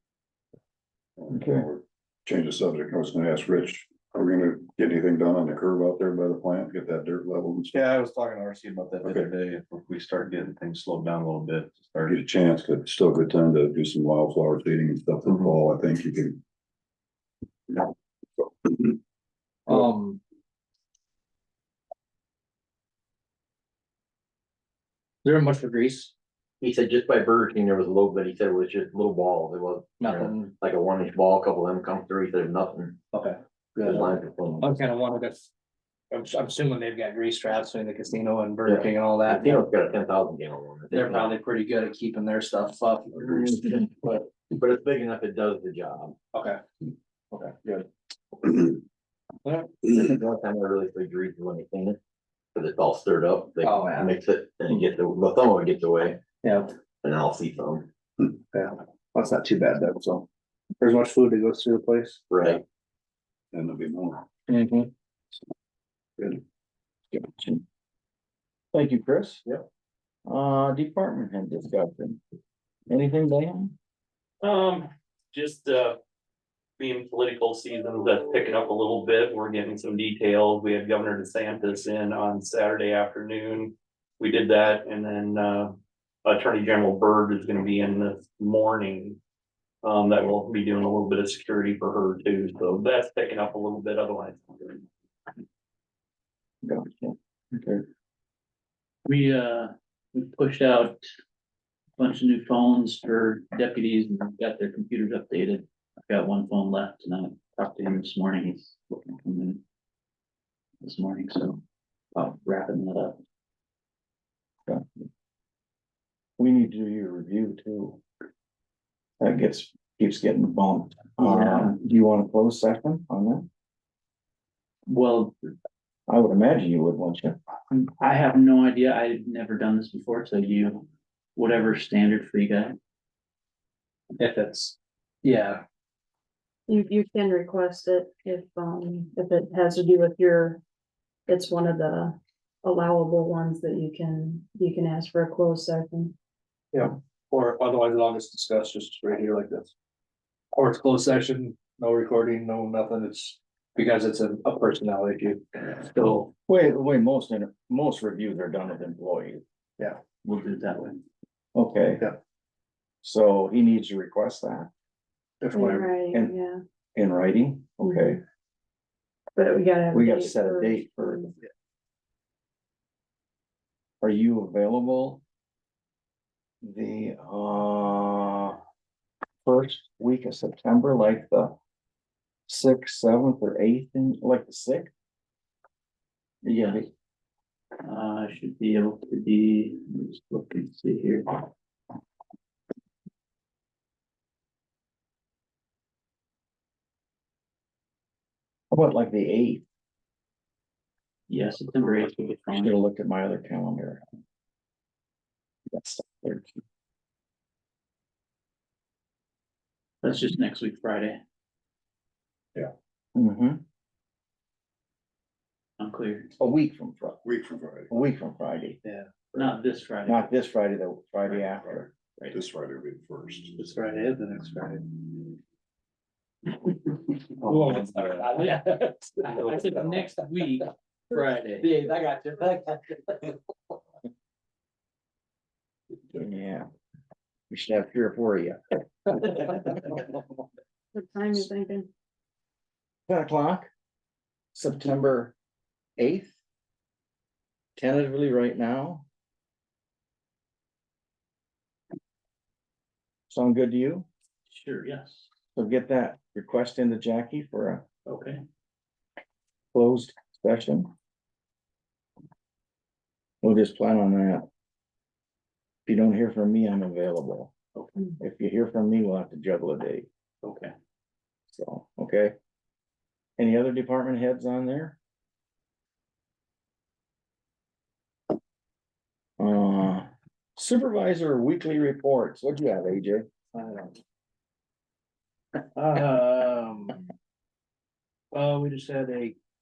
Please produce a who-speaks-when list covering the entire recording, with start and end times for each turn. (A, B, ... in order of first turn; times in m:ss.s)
0:01.2-0:07.7 A
0:01.3-0:01.6 B
0:07.7-0:12.2 C
0:09.0-0:09.3 A
0:12.1-0:16.4 A
0:19.7-0:20.2 D
0:25.2-0:26.1 D
0:26.6-0:33.0 E
0:30.0-0:30.5 D
0:33.1-0:35.5 D
0:33.8-0:34.8 E
0:36.1-0:39.6 D
0:38.6-0:41.4 E
0:40.9-0:44.3 D
0:43.2-0:46.2 E
0:46.3-0:46.6 D
0:47.3-0:47.8 D
0:49.4-0:49.7 D
0:49.8-0:52.0 E
0:52.5-0:56.2 E
0:53.6-0:54.1 D
0:56.4-0:56.7 D
0:57.0-0:57.9 E
0:58.5-1:00.2 D
1:00.8-1:02.2 D
1:02.3-1:02.6 E
1:03.5-1:04.2 A
1:04.5-1:04.9 D
1:07.1-1:07.6 B
1:08.7-1:09.4 B
1:10.3-1:12.2 B
1:12.9-1:13.8 B
1:14.4-1:16.0 F
1:16.8-1:29.2 F
1:29.8-1:34.8 F
1:36.6-1:37.8 B
1:39.0-1:41.0 G
1:42.0-1:49.6 G
1:50.8-1:51.6 G
1:52.1-1:53.2 G
1:56.4-1:58.0 B
1:59.2-2:03.5 B
2:01.2-2:01.8 G
2:04.9-2:05.4 G
2:06.1-2:07.4 B
2:07.7-2:12.8 G
2:14.2-2:15.6 D
2:16.7-2:20.6 H
2:21.3-2:26.1 H
2:26.7-2:29.7 D
2:30.5-2:35.4 D
2:35.8-2:36.3 G
2:36.5-2:39.4 B
2:40.2-2:41.0 G
2:41.5-2:42.0 B
2:43.0-2:44.7 B
2:45.4-2:45.9 D
2:45.5-2:46.6 H
2:47.0-2:48.2 B
2:47.8-2:48.2 H
2:49.3-2:51.4 H
2:49.9-2:51.3 B
2:54.0-2:55.2 B
2:56.6-2:58.6 B
2:59.4-3:01.6 B
3:02.5-3:04.9 B
3:06.4-3:06.9 B
3:07.8-3:11.5 G
3:18.7-3:19.6 B
3:21.3-3:22.7 G
3:22.5-3:24.0 B
3:25.7-3:26.6 B
3:30.0-3:31.2 G
3:33.1-3:33.6 B
3:35.8-3:36.3 G
3:36.4-3:37.2 B
3:37.2-3:37.9 A
3:37.9-3:38.8 B
3:39.4-3:40.3 G
3:40.1-3:41.9 B
3:42.3-3:43.5 A
3:43.6-3:44.9 D
3:47.4-3:49.5 D
3:48.3-3:51.6 G
3:51.1-3:51.6 D
3:51.6-3:53.3 E
3:56.1-3:56.7 B
3:57.5-3:58.6 B
4:00.9-4:01.9 H
4:03.1-4:03.7 B
4:04.5-4:05.4 B
4:06.0-4:06.4 B
4:07.8-4:09.0 B
4:13.3-4:14.0 B
4:14.5-4:15.3 G
4:15.6-4:17.8 B
4:18.0-4:18.4 G
4:19.7-4:20.9 B
4:23.4-4:24.4 B
4:25.8-4:27.5 B
4:27.8-4:28.0 G
4:28.2-4:30.1 B
4:30.4-4:30.7 G
4:31.5-4:32.3 B
4:33.4-4:35.0 B
4:39.4-4:43.3 B
4:43.5-4:44.0 D
4:45.7-4:47.0 D
4:48.3-4:49.4 D